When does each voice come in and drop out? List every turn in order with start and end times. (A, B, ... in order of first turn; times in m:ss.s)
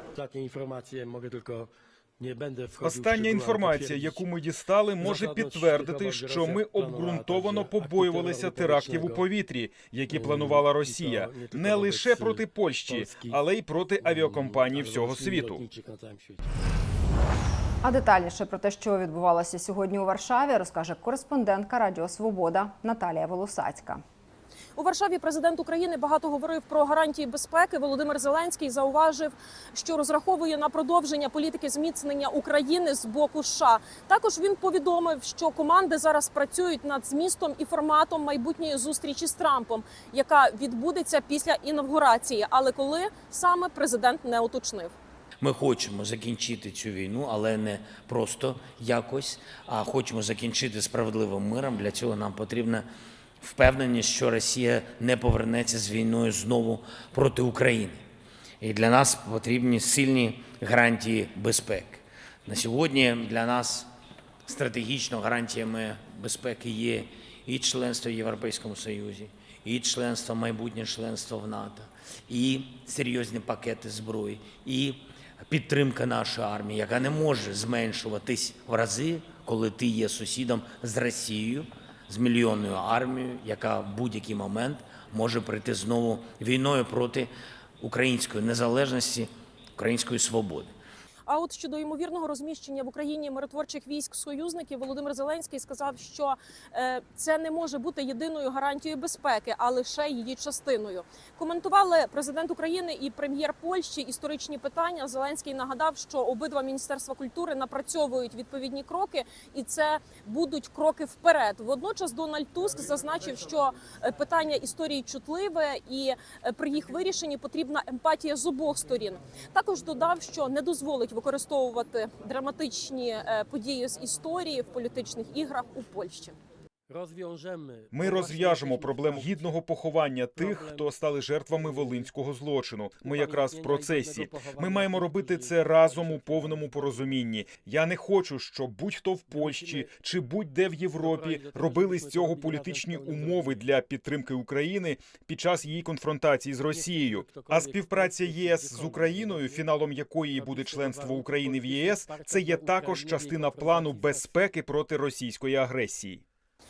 0:00.1-0:04.2 A
0:02.8-0:15.6 B
0:05.0-0:09.3 A
0:10.1-0:13.4 A
0:14.0-0:16.4 A
0:17.8-0:24.0 C
0:24.8-0:44.9 D
0:45.4-0:52.9 E
0:53.4-0:58.0 E
0:58.6-1:03.9 E
1:04.4-1:30.7 E
1:31.3-2:06.4 D
2:06.9-2:09.5 A
2:07.9-2:36.2 B
2:10.4-2:10.9 A
2:11.5-2:12.1 A
2:13.0-2:17.2 A
2:19.3-2:19.9 A
2:21.0-2:23.7 A
2:26.7-2:29.6 A
2:30.3-2:34.5 A